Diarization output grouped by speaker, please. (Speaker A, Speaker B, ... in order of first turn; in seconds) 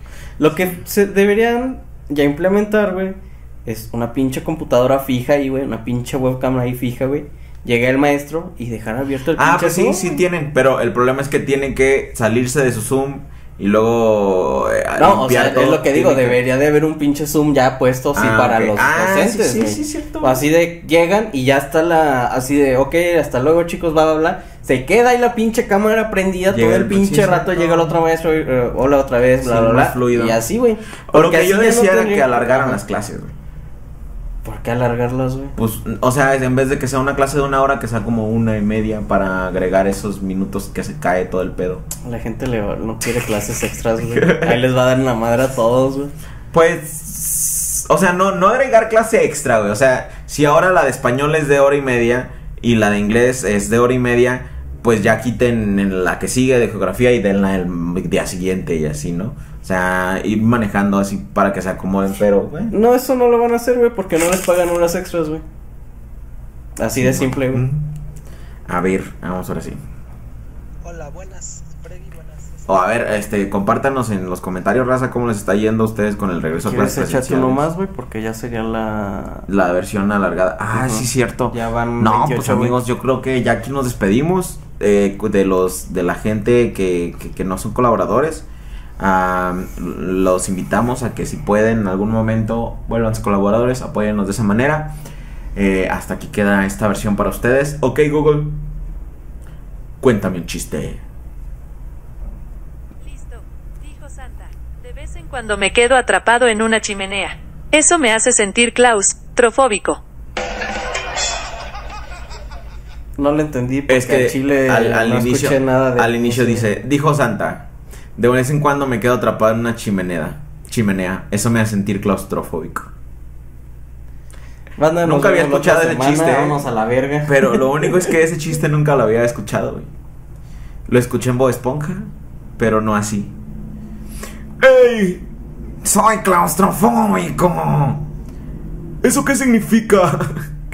Speaker A: 0.4-10.2, 15.0-32.8, 34.4-35.5, 42.0-46.1, 62.7-65.4, 66.8-67.6, 76.6-79.5, 80.7-82.8, 113.2-116.6, 124.8-127.6
Speaker B: 9.4-16.4, 18.1-20.4, 26.5-27.9, 29.4-30.4, 31.1-33.3, 35.5-41.8, 44.1-44.6, 46.5-62.7, 66.9-67.9, 68.7-69.8, 72.7-77.7, 79.5-88.4, 89.0-95.0, 95.5-98.6, 100.0-101.0, 113.9-122.9, 125.0-126.6, 127.3-129.9, 130.9-133.3, 134.6-135.2, 135.8-138.0, 139.0-140.5
Speaker C: 103.0-110.0